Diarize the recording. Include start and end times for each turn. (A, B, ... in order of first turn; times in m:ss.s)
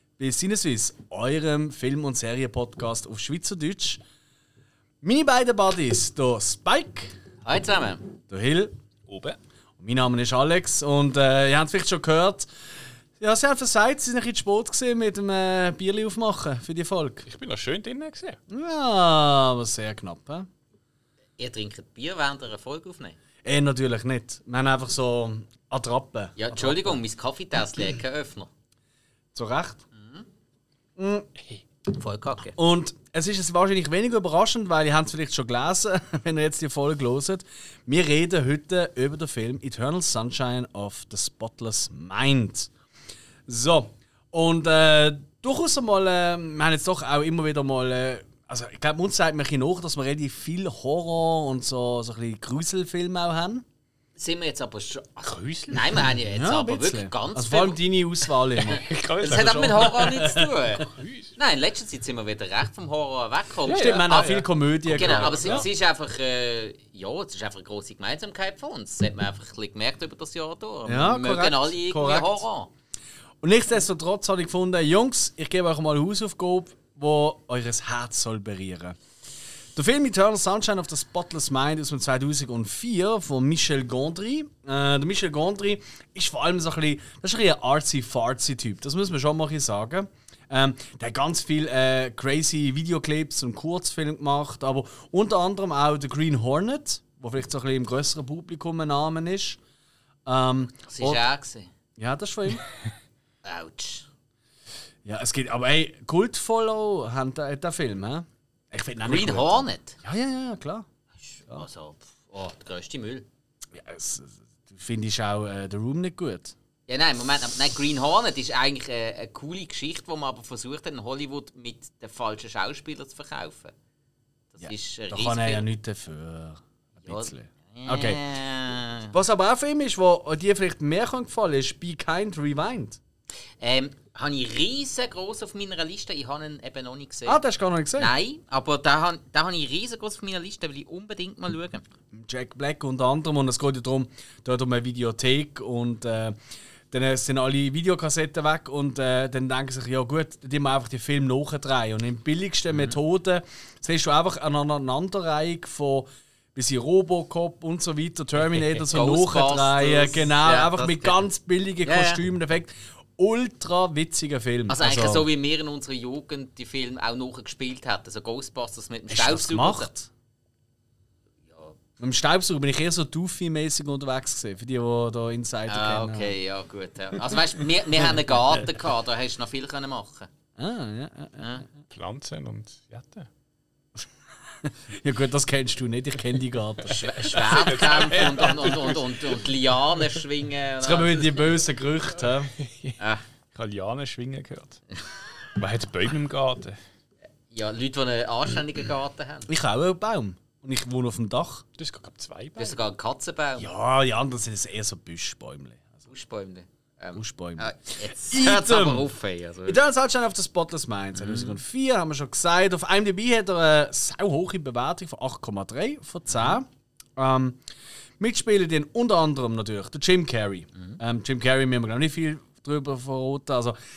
0:00.2-0:04.0 A
0:05.0-0:07.2 A
0:07.4-0:08.0 B
0:08.3-0:08.7 A
0:09.1-0:09.4 C
0:09.8-0:12.5 A
0:13.2-0:17.3 A
0:17.3-0:18.4 C
0:18.5-0:20.5 A
0:21.4-0:23.2 B
0:23.4-0:27.0 A
0:26.4-0:28.5 B
0:29.3-0:29.8 A
0:29.9-0:30.2 B
0:31.0-0:31.3 A
0:31.9-0:32.6 B
0:32.6-0:42.7 A
0:43.5-0:53.6 A
0:54.2-0:57.8 B
0:55.2-0:56.1 C
0:56.2-1:00.5 A
0:58.5-1:12.7 B
0:58.7-1:01.3 C
1:03.6-1:05.7 A
1:03.6-1:05.7 C
1:10.8-1:12.4 A
1:13.4-1:19.0 A
1:19.7-1:39.6 A
1:40.2-1:41.2 A
1:40.9-1:41.7 B
1:42.0-1:42.6 A
1:43.4-1:44.1 B
1:45.0-1:50.9 A
1:49.0-1:50.0 B
1:51.3-1:53.2 B
1:53.7-1:56.5 A
1:56.9-2:03.7 B
2:04.5-2:05.6 B
2:04.6-2:08.2 A
2:07.0-2:09.1 B
2:09.1-2:13.0 A
2:13.6-2:17.4 B
2:17.3-2:18.1 A
2:18.0-2:21.8 B
2:22.1-2:26.4 A
2:26.9-2:45.3 A
2:38.8-2:41.2 B
2:41.8-2:42.2 B
2:44.7-2:49.9 B
2:49.1-2:50.1 A
2:51.5-2:51.8 B
2:52.0-2:56.4 A
2:55.7-3:00.3 B
3:00.6-3:01.5 A
3:01.4-3:01.6 B
3:01.9-3:03.3 C
3:04.6-3:08.9 A
3:06.8-3:11.4 B
3:07.3-3:09.4 C
3:10.8-3:12.5 A
3:12.6-3:13.0 C
3:13.0-3:13.2 B
3:13.5-3:14.8 C
3:15.5-3:16.8 C
3:17.5-3:19.5 B
3:19.5-3:21.6 A
3:21.8-3:22.8 C
3:22.6-3:23.7 B
3:23.6-3:26.1 A
3:26.1-3:29.8 B
3:27.1-3:29.1 A
3:29.6-3:37.6 A
3:31.2-3:31.6 B
3:36.3-3:36.6 B
3:38.2-3:43.8 A